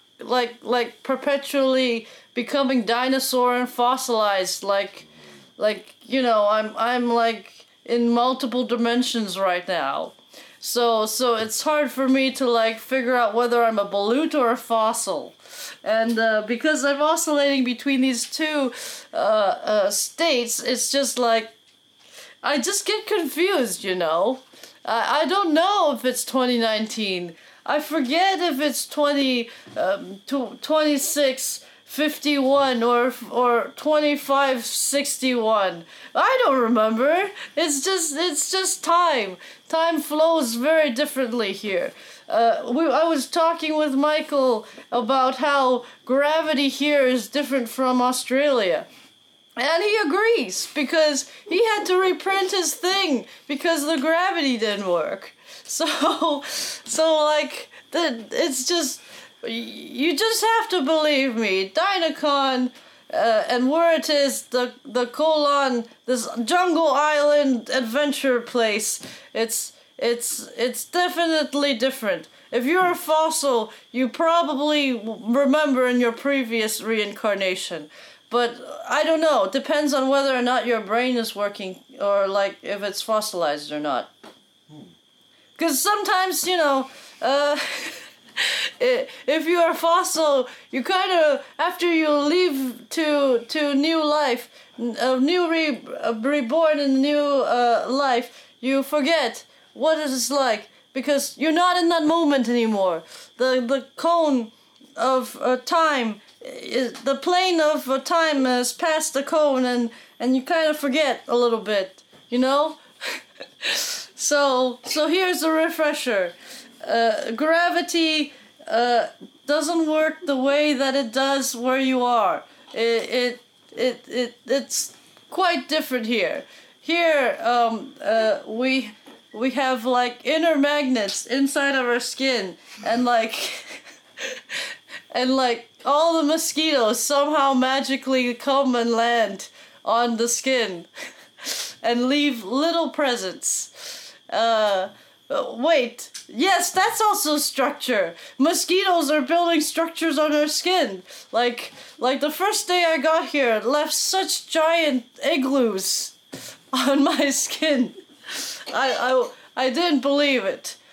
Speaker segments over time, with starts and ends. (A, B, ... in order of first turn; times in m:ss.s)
0:00.2-0:05.0 A
0:05.6-0:21.5 A
0:22.4-0:48.9 A
0:49.6-1:24.1 A
1:25.6-2:14.6 A
2:15.1-2:20.9 A
2:21.4-2:36.1 A
2:36.7-2:40.8 A